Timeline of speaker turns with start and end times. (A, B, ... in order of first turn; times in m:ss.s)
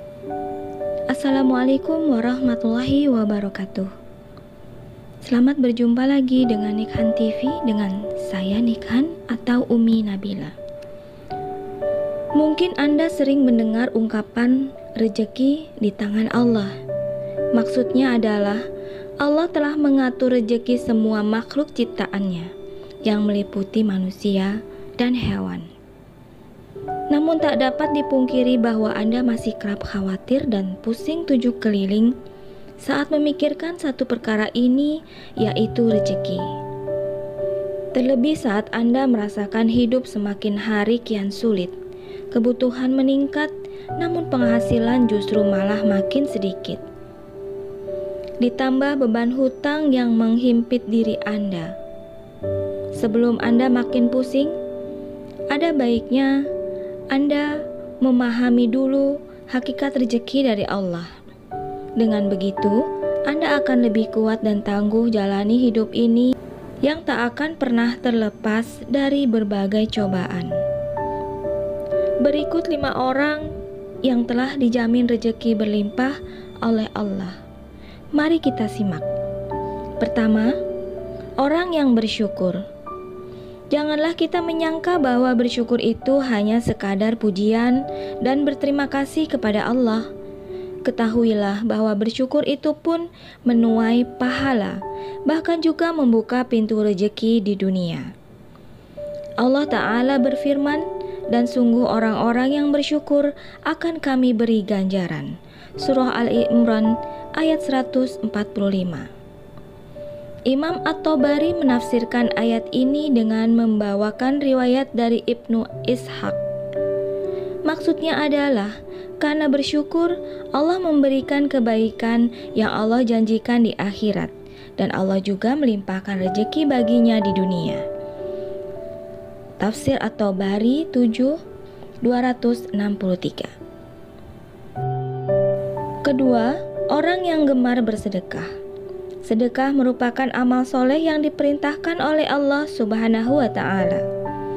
0:01.1-0:03.9 A
0:05.2-0:10.6 A
0:12.4-0:16.8 A
0:17.5-0:18.6 A
0:19.2-0:22.5 A
0:23.0-0:25.7 A
0:27.1-0:32.2 A
0:32.8-0:36.5 A
0:37.9-0:41.8 A
0:42.3-0:46.8 A
0:48.4-0:51.7 A
0:52.9-0:54.6 A
0:55.5-0:56.5 A
0:57.1-1:01.1 A
1:02.0-1:06.3 A
1:06.8-1:10.6 A
1:12.2-1:17.4 A
1:18.1-1:19.1 A
1:20.0-1:20.6 A
1:21.4-1:22.6 A
1:23.7-1:30.1 A
1:30.8-1:38.1 A
1:39.4-1:49.1 A
1:50.5-1:56.4 A
1:57.6-2:07.8 A
2:09.6-2:11.4 A
2:12.0-2:13.5 A
2:16.0-2:18.5 A
2:19.2-2:24.0 A